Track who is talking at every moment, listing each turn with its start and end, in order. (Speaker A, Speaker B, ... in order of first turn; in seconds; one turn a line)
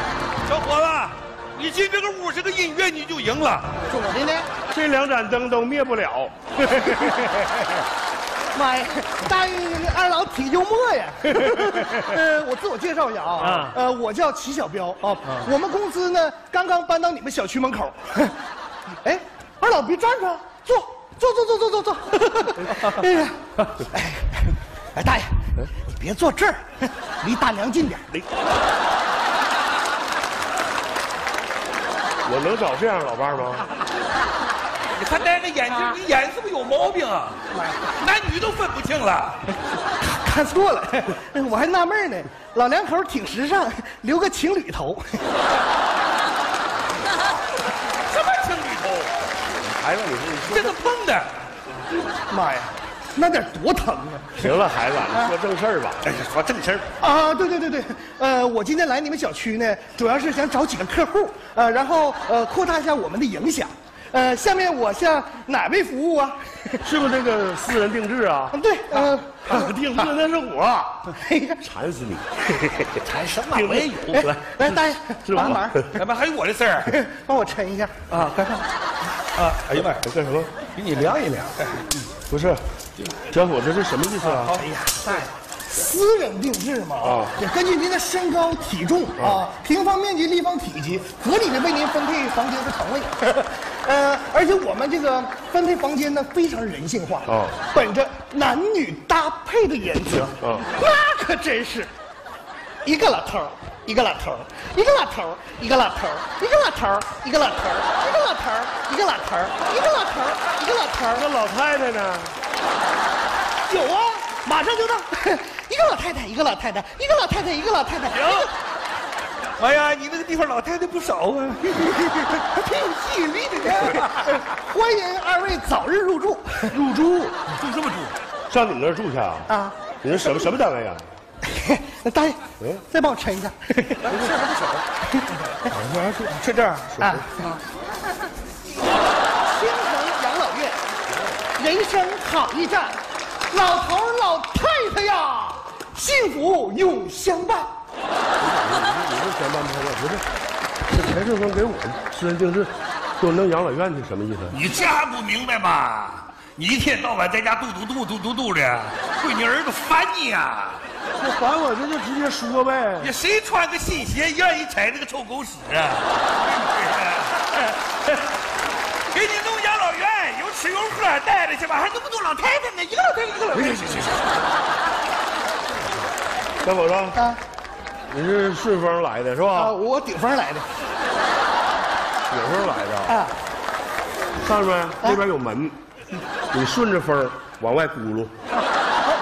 Speaker A: 0.4-3.8
Speaker B: 4.0-4.4
Speaker C: 4.7-7.2
Speaker B: 8.5-18.4
Speaker C: 13.4-13.8
Speaker B: 19.0-28.3
Speaker C: 32.2-33.7
Speaker A: 34.9-39.4
Speaker B: 37.5-37.8
Speaker B: 40.0-45.3
Speaker A: 48.0-49.1
Speaker C: 49.6-50.9
Speaker A: 50.5-51.3
Speaker B: 52.3-54.5
Speaker C: 54.4-56.1
Speaker A: 56.0-56.9
Speaker B: 57.0-66.9
Speaker C: 66.8-72.4
Speaker B: 68.5-69.8
Speaker B: 71.1-71.6
Speaker A: 72.7-74.3
Speaker C: 73.5-75.9
Speaker B: 74.1-76.0
Speaker A: 75.9-76.9
Speaker B: 76.8-78.0
Speaker A: 78.1-78.7
Speaker A: 79.3-80.0
Speaker C: 80.0-80.5
Speaker A: 80.6-81.9
Speaker C: 82.3-82.6
Speaker C: 83.3-84.7
Speaker A: 84.2-85.3
Speaker B: 85.7-101.9
Speaker C: 87.0-87.4
Speaker C: 97.3-97.6
Speaker C: 100.4-100.7
Speaker B: 102.8-111.3
Speaker C: 111.2-112.4
Speaker B: 113.7-118.5
Speaker A: 118.1-118.5
Speaker A: 119.6-124.4
Speaker B: 123.6-126.8
Speaker C: 126.7-127.4
Speaker A: 127.5-128.2
Speaker C: 128.5-129.5
Speaker B: 129.5-130.5
Speaker C: 130.0-131.1
Speaker B: 131.4-134.1
Speaker A: 134.0-134.8
Speaker B: 135.2-135.8
Speaker A: 135.9-136.9
Speaker C: 137.0-137.2
Speaker B: 137.0-137.5
Speaker B: 139.4-140.8
Speaker B: 141.6-147.7
Speaker C: 148.4-150.3
Speaker C: 150.9-154.6
Speaker A: 154.5-160.8
Speaker C: 161.2-163.1
Speaker A: 163.0-167.4
Speaker A: 169.1-174.2
Speaker C: 176.6-177.2
Speaker B: 177.2-177.4
Speaker C: 178.1-179.8
Speaker B: 179.5-180.8
Speaker C: 182.3-183.2
Speaker B: 183.1-183.3
Speaker C: 184.4-185.8
Speaker C: 186.5-188.3